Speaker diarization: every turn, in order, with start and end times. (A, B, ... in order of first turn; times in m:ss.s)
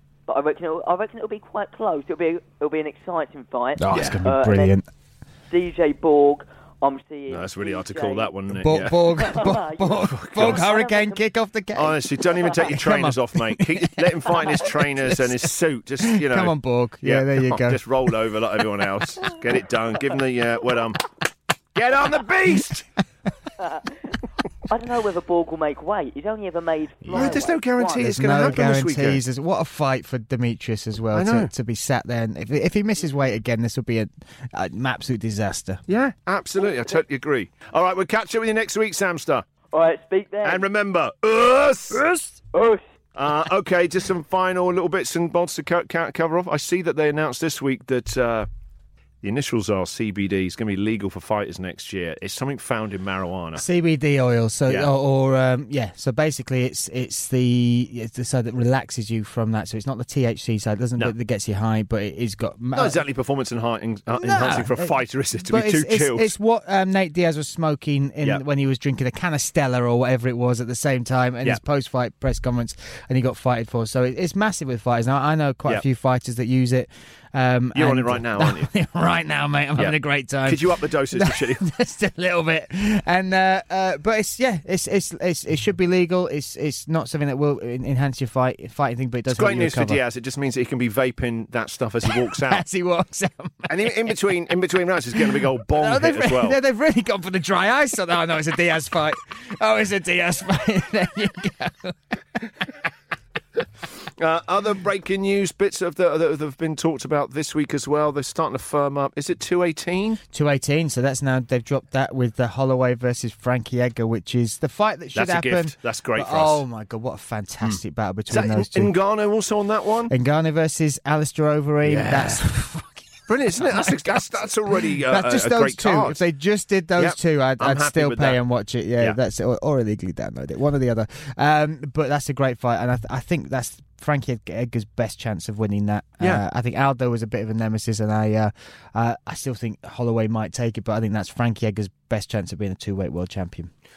0:00.3-0:04.8 A
0:03.8-0:04.8 B
0:03.9-0:04.2 C
0:05.5-0:08.3 A
0:07.3-0:10.7 C
0:08.5-0:12.0 B
0:09.2-0:11.2 A
0:11.7-0:21.0 C
0:12.6-0:15.3 B
0:16.0-0:17.8 B
0:21.7-0:22.9 C
0:23.6-0:23.9 A
0:24.7-0:28.0 A
0:27.0-0:27.4 B
0:27.1-0:29.2 C
0:28.0-0:35.8 B
0:31.1-0:31.5 C
0:35.9-0:39.4 C
0:39.7-0:40.6 A
0:40.4-0:42.1 C
0:42.5-0:42.8 A
0:43.1-0:48.5 C
0:49.2-0:53.6 C
0:53.6-1:03.0 B
1:02.7-1:06.3 C
1:04.1-1:04.9 B
1:05.5-1:30.0 B
1:17.7-1:18.7 C
1:19.8-1:21.6 C
1:29.3-1:32.6 C
1:32.1-1:34.2 B
1:33.7-1:36.6 C
1:35.2-1:42.6 B
1:43.9-1:50.2 C
1:50.3-1:58.9 B
1:55.1-1:56.6 C
1:57.6-2:00.1 C
2:00.1-2:03.0 B
2:01.8-2:02.4 C
2:03.3-2:06.2 C
2:03.6-2:04.1 B
2:05.1-2:23.7 B
2:07.0-2:08.4 C